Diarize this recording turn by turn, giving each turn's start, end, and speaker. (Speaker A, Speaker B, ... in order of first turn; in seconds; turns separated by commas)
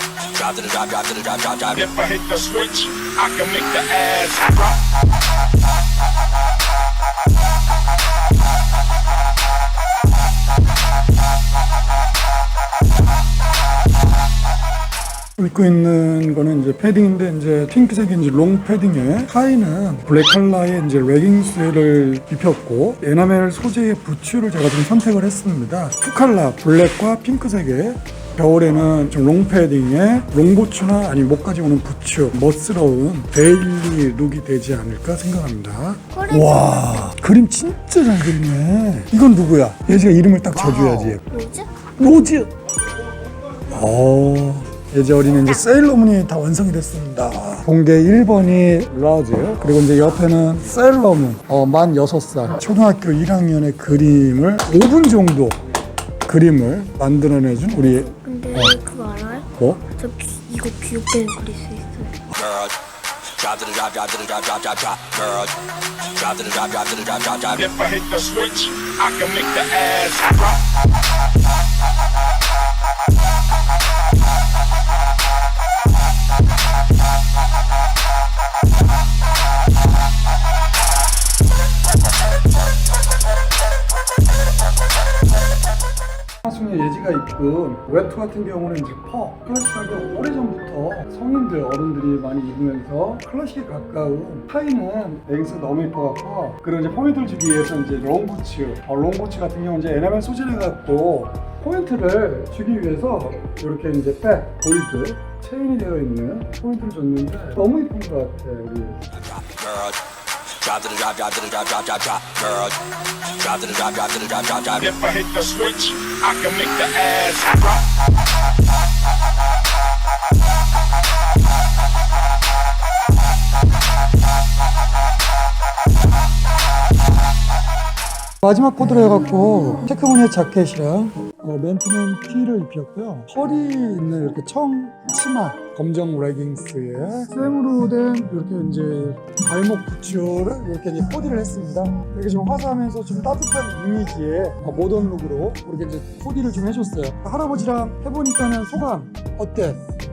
Speaker A: 0.7-1.3, Speaker B: 1.7-4.7, Speaker C: 15.4-41.2, Speaker D: 36.1-37.1, Speaker D: 41.3-41.8, Speaker C: 42.0-42.5, Speaker C: 43.7-55.6, Speaker C: 56.3-58.8, Speaker D: 57.8-62.2, Speaker C: 59.5-59.8, Speaker A: 63.4-65.4, Speaker A: 66.3-67.1, Speaker B: 67.5-70.5, Speaker C: 86.4-109.0, Speaker A: 110.7-112.6, Speaker A: 113.5-114.6, Speaker B: 114.7-117.7, Speaker C: 128.4-149.8